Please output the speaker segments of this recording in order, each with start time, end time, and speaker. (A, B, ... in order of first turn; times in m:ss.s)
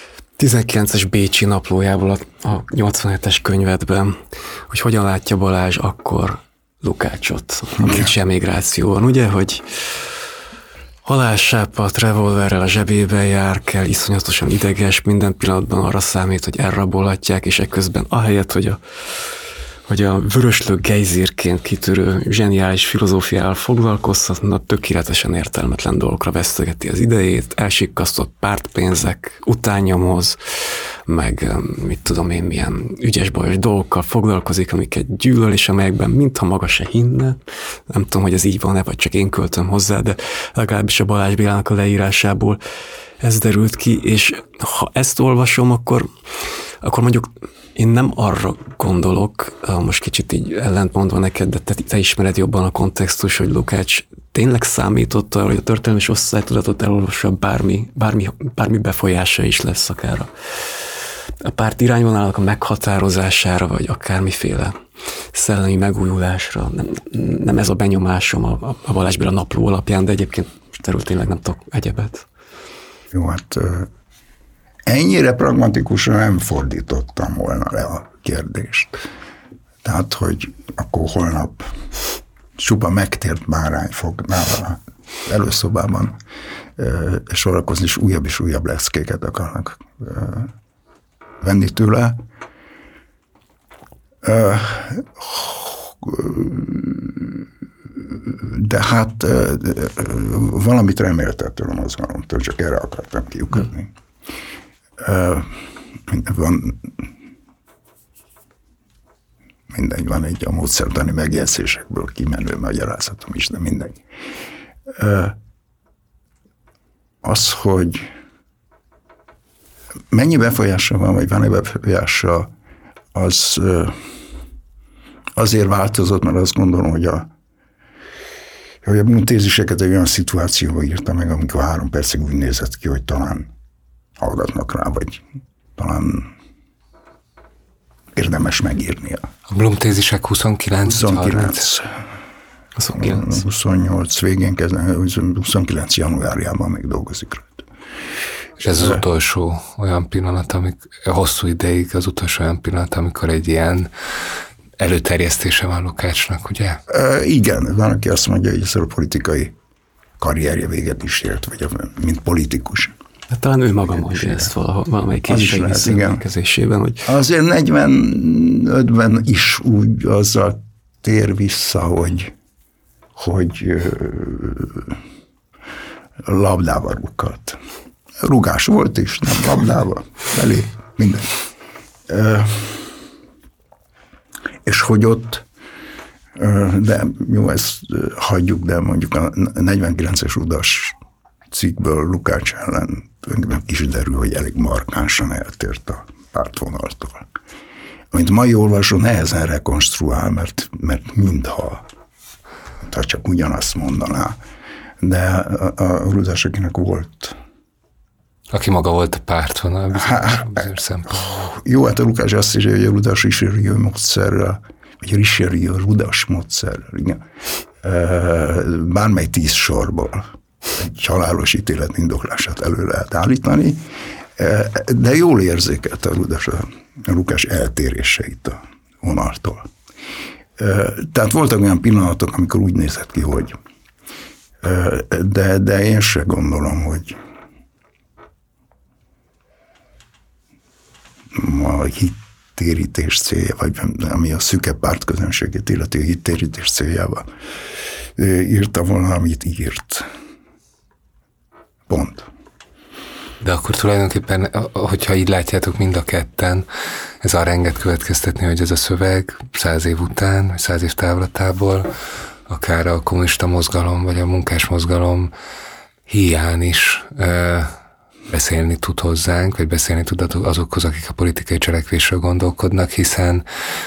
0:00.4-0:10.2 A
0:11.0-0:18.8 A
0:19.9-0:42.6 A
0:43.2-0:46.1 A
0:46.8-1:04.8 A
1:05.3-1:12.3 A
1:13.1-1:13.9 B
1:14.9-1:19.0 B
1:19.8-1:21.7 B
1:22.6-1:26.2 B
1:26.8-1:30.5 B
1:31.4-1:32.2 B
1:34.2-1:37.4 B
1:38.0-1:43.9 B
1:45.0-1:45.6 B
1:46.1-1:46.9 B
1:49.7-1:54.0 B
1:54.9-1:55.4 B
1:57.2-1:58.1 B
2:00.1-2:02.5 B
2:03.1-2:04.0 B
2:05.4-2:07.3 B
2:08.8-2:13.5 B
2:14.2-2:15.2 B
2:15.8-2:16.3 B
2:18.1-2:19.3 B
2:19.5-2:21.7 C
2:20.8-2:21.9 B
2:22.8-2:23.4 A
2:22.9-2:27.6 B
2:28.6-2:33.9 C
2:28.7-2:29.0 B
2:34.8-2:36.8 C
2:36.9-2:39.5 B
2:40.2-2:42.9 B
2:43.3-2:47.1 A
2:45.3-2:46.2 B
2:47.0-2:52.3 B
2:53.2-2:55.0 B
2:56.2-2:57.6 B
2:58.2-3:01.3 B
3:02.1-3:03.0 B
3:04.6-3:05.4 B
3:06.4-3:11.0 B
3:11.5-3:17.3 B
3:18.1-3:21.8 B
3:22.8-3:24.4 B
3:25.0-3:27.4 B
3:28.5-3:31.5 C
3:29.9-3:37.2 B
3:37.8-3:43.8 B
3:44.4-3:49.7 B
3:50.6-3:53.6 B
3:54.6-3:57.2 B
4:01.3-4:07.2 B
4:08.2-4:10.0 B
4:11.9-4:12.3 B
4:13.4-4:16.7 C
4:17.2-4:21.9 C
4:22.5-4:25.3 C
4:26.1-4:27.7 C
4:28.3-4:33.4 C